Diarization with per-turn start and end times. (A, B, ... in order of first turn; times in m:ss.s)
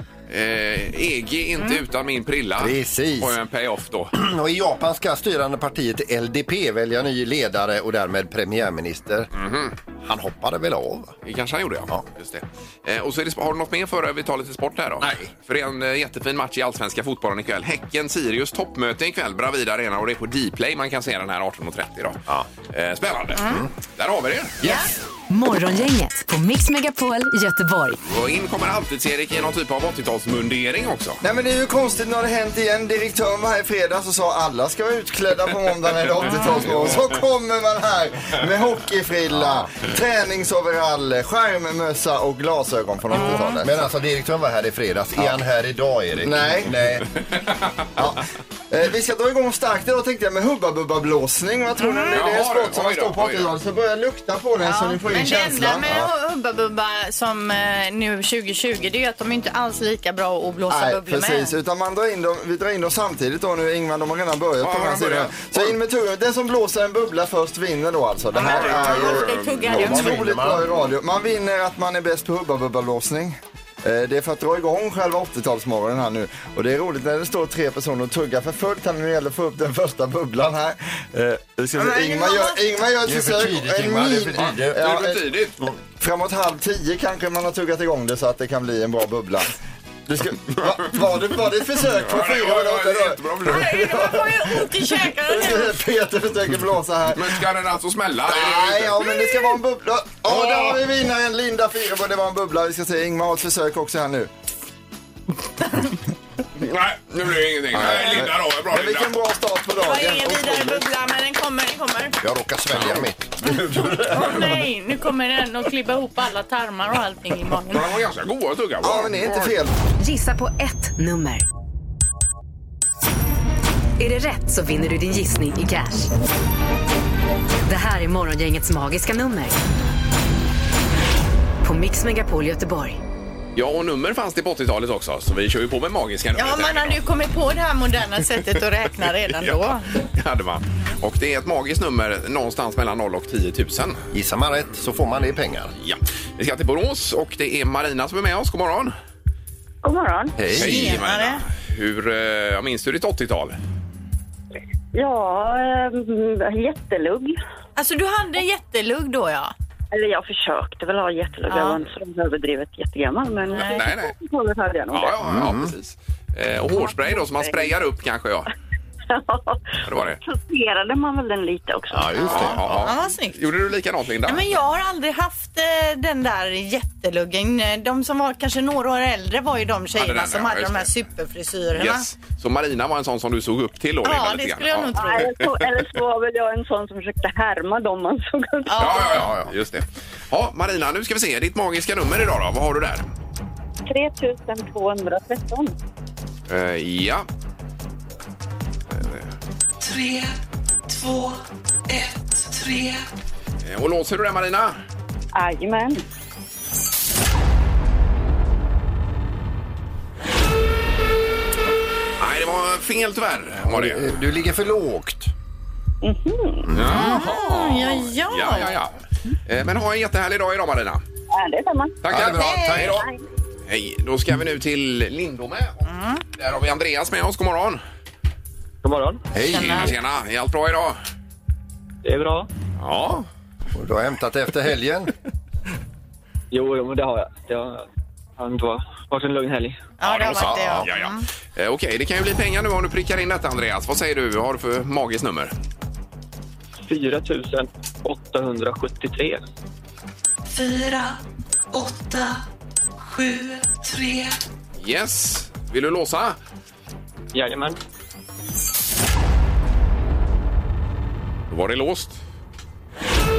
0:00.3-0:04.1 A
0:02.6-0:03.4 B
0:04.2-0:09.3 B
0:09.3-0:09.8 A
0:10.0-0:11.2 B
0:11.2-0:24.6 A
0:15.0-0:15.3 B
0:23.4-0:23.6 C
0:23.4-0:23.7 B
0:24.6-0:25.0 B
0:24.6-0:24.9 C
0:25.3-0:28.0 D
0:28.1-0:31.2 A
0:31.2-0:43.8 E
0:36.2-0:36.6 C
0:36.3-0:37.0 A
0:39.3-0:39.7 B
0:43.1-0:43.6 C
0:43.6-0:47.1 B
0:46.2-0:46.8 E
0:47.2-0:47.9 A
0:48.0-0:56.1 E
0:51.8-0:52.2 C
0:52.1-0:53.5 A
0:54.6-1:01.5 C
1:00.7-1:25.2 E
1:04.6-1:05.8 A
1:08.3-1:10.2 C
1:08.4-1:09.7 A
1:09.6-1:10.7 B
1:21.8-1:22.7 C
1:23.0-1:24.9 B
1:24.4-1:25.6 A
1:26.0-1:37.4 E
1:30.6-1:31.0 A
1:32.0-1:33.8 A
1:33.4-1:35.7 C
1:37.1-1:39.3 A
1:38.3-1:44.3 E
1:40.3-1:40.6 C
1:46.6-1:49.1 A
1:47.7-1:50.8 E
1:47.9-1:48.2 C
1:49.8-1:52.2 C
1:52.2-1:54.5 B
1:52.7-1:53.0 A
1:54.1-1:57.9 C
1:57.7-1:59.2 A
1:58.8-1:59.7 E
2:00.0-2:01.4 D
2:04.0-2:06.1 D
2:07.7-2:09.6 D
2:11.6-2:13.0 D
2:13.6-2:17.0 A
2:16.4-2:19.9 C
2:19.3-2:24.0 A
2:24.1-2:25.7 B
2:25.8-2:29.0 A
2:29.8-2:30.4 F
2:30.4-2:31.0 B
2:30.6-2:33.6 A
2:30.6-2:31.4 C
2:34.9-2:37.4 F
2:37.8-2:39.5 C
2:39.9-2:45.2 F
2:41.5-2:41.8 C
2:43.5-2:43.9 C
2:43.6-2:44.1 A
2:44.9-2:48.5 A
2:45.2-2:45.7 B
2:46.8-2:47.8 F
2:49.1-2:52.4 F
2:49.8-2:50.2 A
2:51.9-2:52.9 B
2:52.2-2:54.5 A
2:52.2-2:53.5 C
2:54.3-3:02.1 C
3:00.0-3:00.9 A
3:01.8-3:05.8 A
3:04.0-3:05.3 C
3:05.0-3:09.1 F
3:08.7-3:09.3 C
3:08.8-3:13.1 A
3:09.2-3:09.5 B
3:13.9-3:15.7 F
3:16.5-3:17.3 A
3:18.9-3:19.3 A
3:19.8-3:23.0 G
3:23.6-3:24.8 A
3:25.4-3:26.0 F
3:32.2-3:34.2 A
3:33.6-3:35.3 B
3:36.0-3:36.7 F
3:36.7-3:37.3 B
3:36.7-3:41.0 A
3:37.0-3:38.8 C
3:41.3-3:42.0 F
3:42.0-3:43.0 A
3:42.1-3:43.0 B
3:42.4-3:42.8 C
3:43.7-3:47.8 A
3:45.9-3:46.2 C
3:48.8-3:49.2 H
3:49.3-3:50.0 B
3:49.5-3:49.9 C
3:49.5-3:51.0 A
3:52.0-3:52.5 H
3:52.8-3:53.3 A
3:53.7-3:55.1 B
3:56.5-3:57.8 H
3:58.4-3:59.8 H
4:00.0-4:01.2 C
4:00.0-4:05.5 A
4:00.3-4:00.9 B
4:06.8-4:09.4 H
4:10.5-4:11.2 G
4:11.7-4:12.4 G
4:13.0-4:14.4 G
4:14.8-4:16.4 A
4:17.3-4:17.8 H
4:21.5-4:22.2 A